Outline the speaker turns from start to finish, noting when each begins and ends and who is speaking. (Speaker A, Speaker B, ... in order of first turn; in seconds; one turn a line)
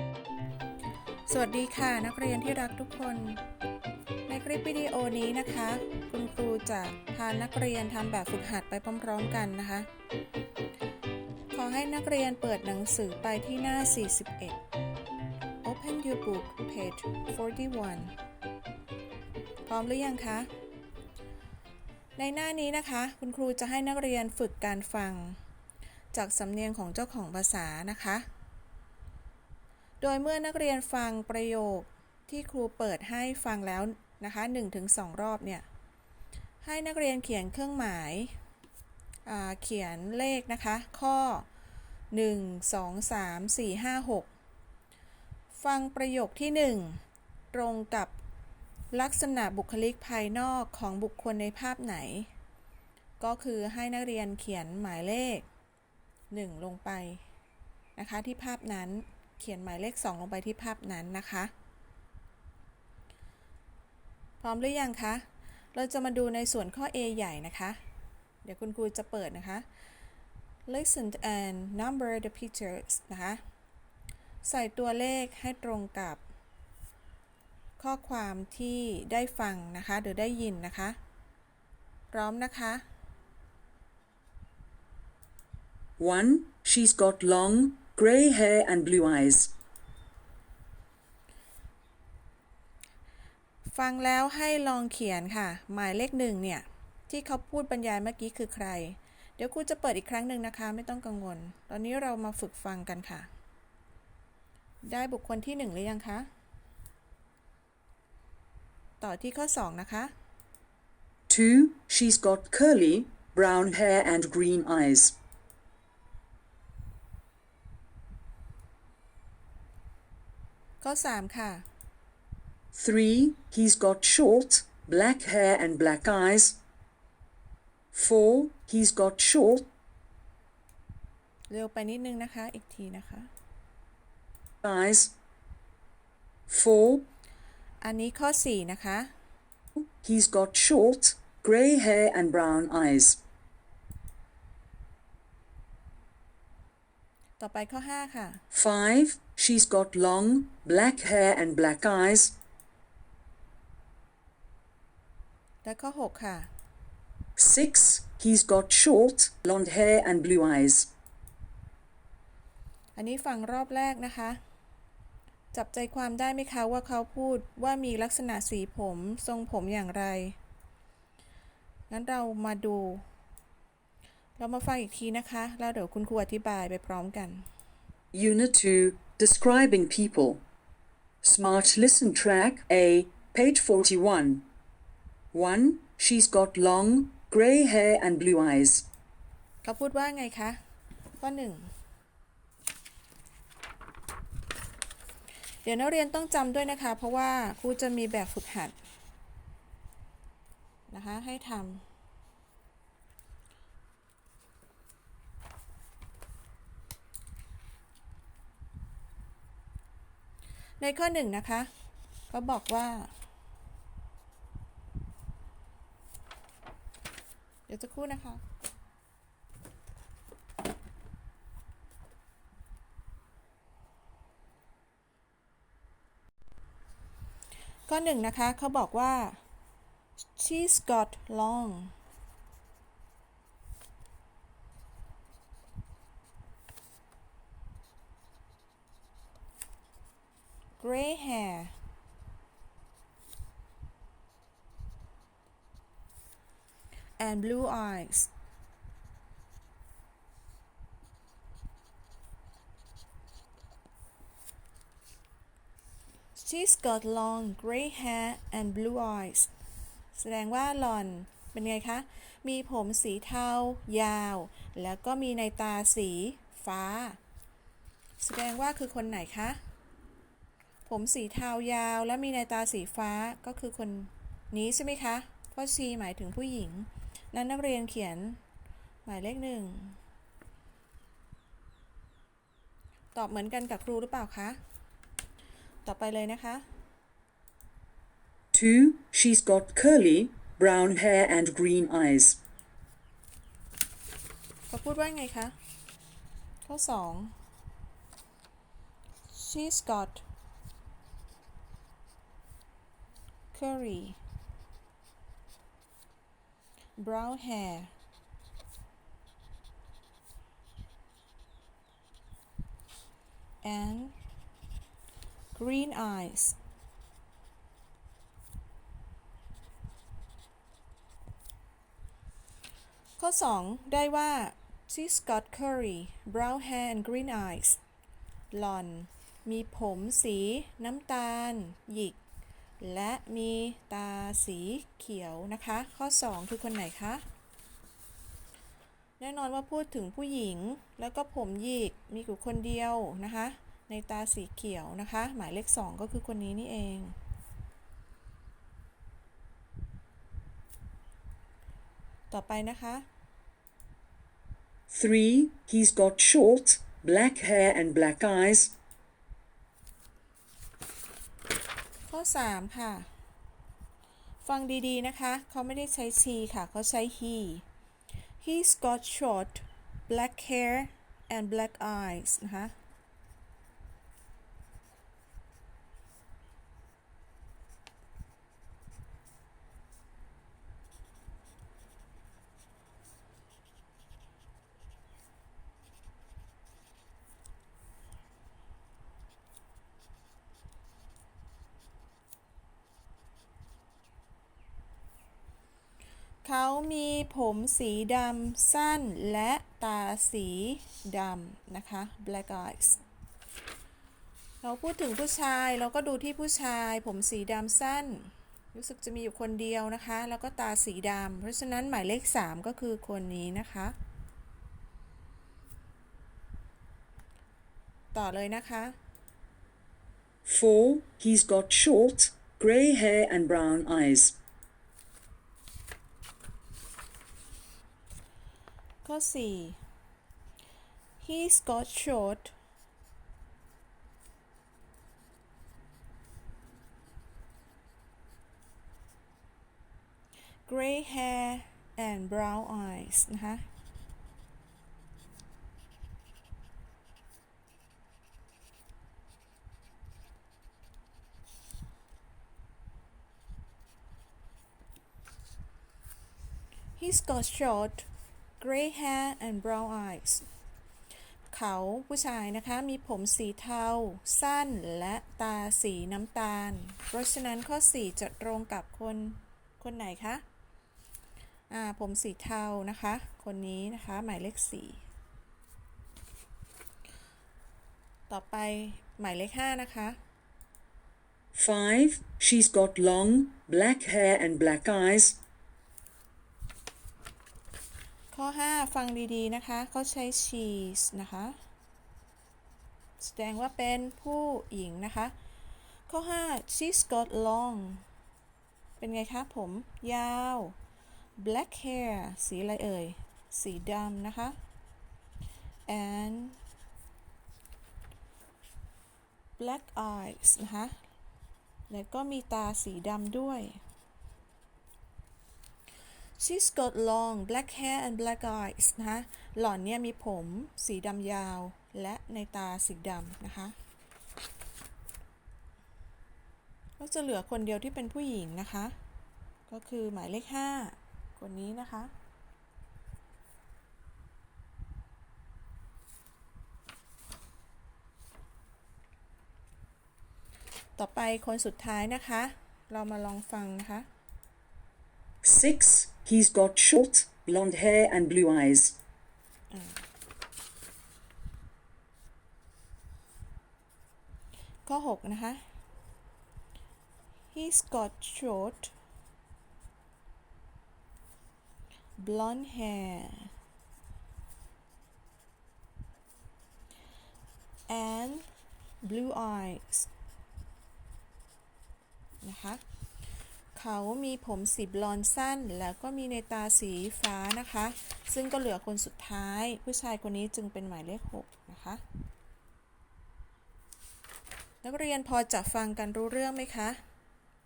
Speaker A: 1.3-3.4
Speaker A: 4.3-9.9
Speaker A: 11.5-14.6
Speaker A: 15.6-18.1
Speaker A: 19.6-20.5
Speaker A: 22.2-25.4
Speaker A: 26.1-28.2
Speaker A: 30.0-35.6
Speaker A: 36.6-38.3
Speaker A: 39.2-41.5
Speaker A: 42.1-44.3
Speaker A: 45.5-47.0
Speaker A: 47.5-48.1
Speaker A: 48.9-52.3
Speaker A: 53.2-55.5
Speaker A: 56.3-57.2
Speaker A: 58.0-61.5
Speaker A: 64.4-67.8
Speaker A: 68.4-69.6
Speaker A: 70.7-73.4
Speaker A: 74.4-76.2
Speaker A: 77.8-81.0
Speaker A: 82.1-82.8
Speaker B: 86.0-89.5
Speaker A: 93.6-103.3
Speaker A: 104.8-106.3
Speaker A: 109.0-110.1
Speaker B: 111.3-115.1
Speaker A: 120.8-121.6
Speaker B: 122.7-126.6
Speaker B: 127.9-129.7
Speaker A: 131.5-133.3
Speaker B: 134.6-135.1
Speaker B: 136.5-137.0
Speaker A: 137.8-139.1
Speaker B: 139.8-143.2
Speaker A: 147.4-148.4
Speaker B: 148.5-152.3
Speaker A: 155.6-156.5
Speaker B: 157.4-160.9
Speaker A: 162.9-164.4
Speaker A: 165.5-170.3
Speaker A: 171.9-173.0
Speaker A: 174.4-177.4
Speaker B: 178.1-180.4
Speaker B: 181.2-184.4
Speaker B: 185.3-188.8
Speaker A: 189.6-190.6
Speaker A: 191.2-191.7
Speaker A: 195.6-198.7
Speaker A: 200.9-201.8
Speaker A: 210.8-211.7
Speaker A: 212.3-213.1
Speaker A: 217.7-218.4
Speaker A: 227.9-229.4
Speaker A: 230.3-231.9
Speaker A: 240.8-241.7
Speaker A: 247.2-248.3
Speaker A: 256.3-259.5
Speaker A: 260.1-267.2
Speaker A: 268.2-269.6
Speaker A: 270.9-278.4
Speaker A: 279.0-280.0
Speaker A: 283.1-284.6
Speaker A: 285.8-286.6
Speaker B: 288.5-292.4
Speaker A: 294.7-295.5
Speaker A: 296.6-297.3
Speaker A: 299.3-300.2
Speaker A: 303.5-304.2
Speaker A: 307.0-307.9
Speaker A: 313.6-314.1
Speaker A: 315.5-316.6
Speaker A: 323.2-327.8
Speaker A: 328.5-332.2
Speaker A: 332.8-337.2
Speaker A: 339.2-347.1
Speaker A: 352.3-353.1
Speaker B: 354.9-358.7
Speaker A: 362.1-363.1
Speaker A: 364.4-367.6
Speaker A: 368.4-372.7
Speaker A: 396.4-403.0
Speaker A: 404.6-413.9
Speaker A: 418.1-418.9
Speaker B: 420.4-424.4
Speaker A: 429.0-429.8
Speaker A: 431.2-432.5
Speaker A: 440.6-443.6
Speaker A: 457.0-458.1
Speaker A: 458.6-460.4
Speaker A: 461.5-470.4
Speaker A: 471.7-475.0
Speaker A: 478.3-480.2
Speaker B: 481.5-485.4
Speaker A: 488.3-491.6
Speaker A: 493.2-495.3
Speaker A: 496.1-498.0
Speaker A: 499.0-500.7
Speaker A: 501.4-504.6
Speaker A: 505.9-506.6
Speaker A: 509.6-510.9
Speaker A: 511.9-513.8
Speaker A: 516.4-523.8
Speaker A: 527.0-528.9
Speaker A: 529.7-532.1
Speaker A: 541.0-544.1
Speaker B: 545.4-549.0
Speaker A: 549.7-550.0
Speaker A: 554.9-555.6
Speaker A: 557.5-558.9
Speaker A: 562.2-563.5
Speaker A: 567.9-568.5
Speaker A: 569.0-570.1
Speaker A: 572.4-572.8
Speaker A: 573.7-582.0
Speaker A: 584.8-587.0